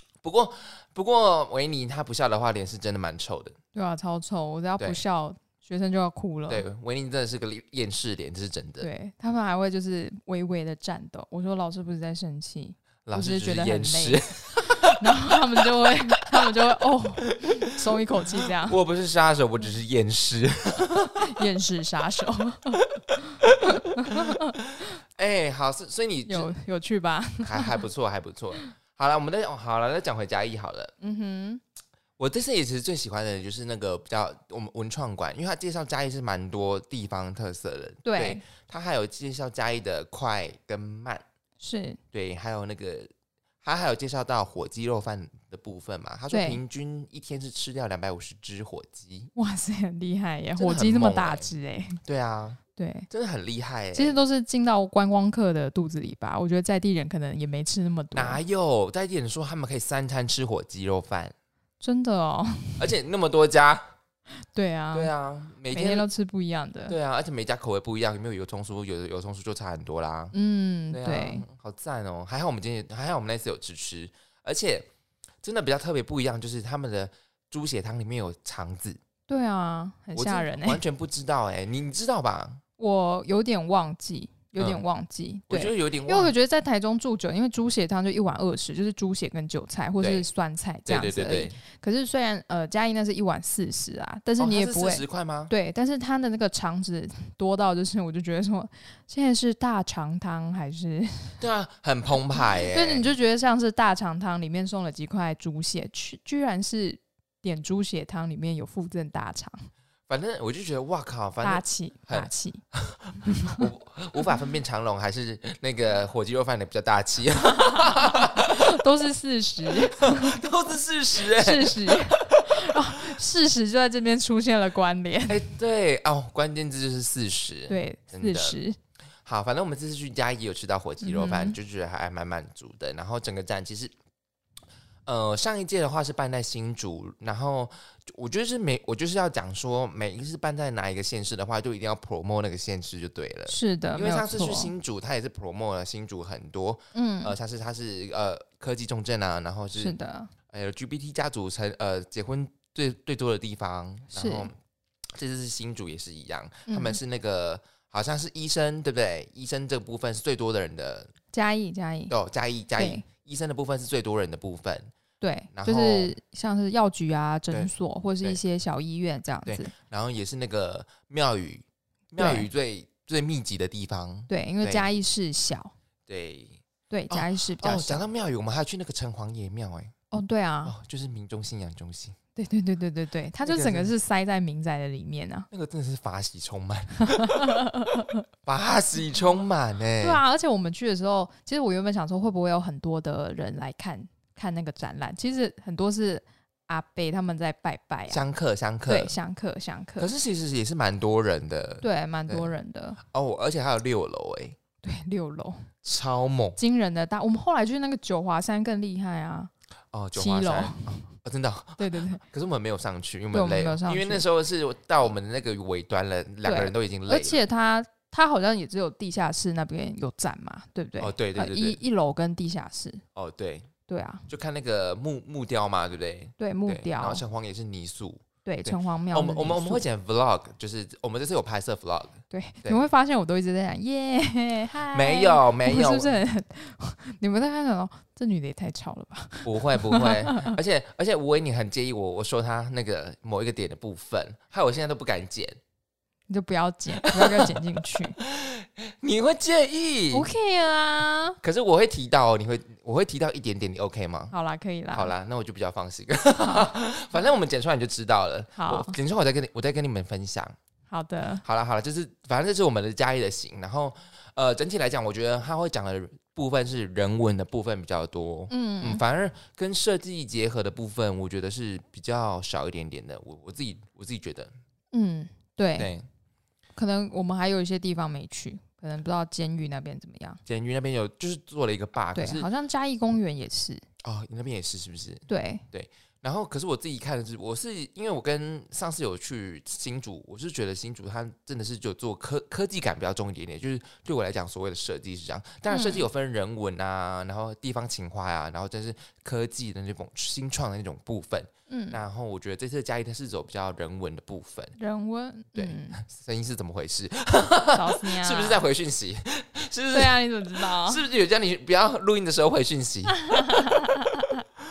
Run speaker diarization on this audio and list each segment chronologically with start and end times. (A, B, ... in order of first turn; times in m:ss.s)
0:00.2-0:03.6 A
0:03.7-0:06.6 B
0:06.5-0:08.9 A
0:08.8-0:18.8 B
0:13.0-0:15.3 A
0:17.2-0:17.7 A
0:18.3-0:21.2 A
0:21.0-0:22.8 B
0:23.4-0:26.5 A
0:23.9-0:24.5 B
0:26.3-0:27.8 B
0:27.4-0:30.9 A
0:31.0-0:31.6 B
0:32.2-0:41.2 A
0:38.0-0:38.4 B
0:41.6-0:42.0 B
0:42.1-0:43.1 A
0:43.6-0:49.3 A
0:46.3-0:46.6 B
0:49.3-0:52.0 B
0:50.6-0:51.5 A
0:52.0-0:54.2 A
0:52.8-0:53.1 B
0:53.9-0:58.4 B
0:58.1-1:01.3 A
1:01.8-1:02.8 B
1:02.8-1:03.8 A
1:04.5-1:05.1 B
1:04.9-1:06.0 A
1:05.7-1:06.9 B
1:06.9-1:10.3 A
1:10.3-1:11.4 B
1:10.9-1:14.9 A
1:15.4-1:19.0 A
1:19.3-1:20.8 B
1:20.1-1:22.6 A
1:22.8-1:41.4 B
1:25.5-1:26.3 A
1:30.0-1:30.3 A
1:30.9-1:31.6 A
1:34.4-1:35.5 A
1:41.4-1:43.1 A
1:42.3-1:49.7 B
1:50.1-1:58.6 A
1:51.4-1:52.6 B
1:53.2-1:53.7 B
1:57.4-2:00.4 B
1:59.8-2:02.4 A
2:01.2-2:05.4 B
2:05.3-2:08.6 A
2:07.7-2:08.8 B
2:09.2-2:13.9 A
2:11.0-2:11.6 B
2:15.0-2:29.9 A
2:23.5-2:24.7 B
2:26.9-2:27.3 B
2:29.8-2:30.3 B
2:30.5-2:34.5 A
2:34.1-2:34.5 B
2:35.2-2:41.1 A
2:36.7-2:37.0 B
2:41.3-2:42.1 B
2:42.1-2:44.9 A
2:42.8-2:43.0 B
2:45.2-2:49.7 B
2:45.5-2:46.1 A
2:49.4-2:54.8 A
2:52.2-2:52.5 B
2:54.3-2:55.7 B
2:56.1-2:59.9 A
2:56.9-2:58.0 B
3:00.1-3:00.7 B
3:00.6-3:02.2 A
3:02.4-3:05.5 B
3:03.4-3:03.9 A
3:05.5-3:07.6 A
3:07.1-3:08.2 B
3:08.4-3:10.2 A
3:10.0-3:18.2 B
3:18.1-3:19.2 A
3:18.9-3:20.1 B
3:20.0-3:22.5 A
3:21.8-3:23.0 B
3:23.0-3:24.6 A
3:24.8-3:25.7 B
3:25.8-3:26.6 A
3:26.6-3:29.5 B
3:29.9-3:37.4 A
3:30.1-3:31.1 B
3:31.8-3:32.2 B
3:33.3-3:34.2 B
3:36.4-3:43.0 B
3:41.0-3:41.8 A
3:43.1-3:43.7 A
3:43.9-3:44.2 B
3:44.3-3:52.8 A
3:46.4-3:47.2 B
3:48.4-3:49.8 B
3:52.3-4:00.5 B
3:54.9-3:56.2 A
3:59.4-4:05.6 A
4:06.3-4:08.2 B
4:07.0-4:07.6 A
4:08.2-4:10.3 A
4:10.1-4:11.4 B
4:11.4-4:14.3 A
4:14.3-4:15.1 B
4:14.9-4:20.6 A
4:16.4-4:16.7 B
4:18.6-4:19.0 B
4:20.9-4:21.4 B
4:21.4-4:34.5 A
4:28.5-4:29.0 B
4:34.9-4:35.9 B
4:35.8-4:36.0 A
4:36.8-4:40.4 B
4:40.4-4:42.5 A
4:42.2-4:43.8 B
4:44.0-5:04.7 A
4:45.3-4:45.6 B
4:55.7-4:56.0 B
5:01.7-5:02.0 B
5:04.8-5:06.0 B
5:05.5-5:13.2 A
5:07.7-5:08.6 B
5:09.9-5:11.0 B
5:13.2-5:14.4 B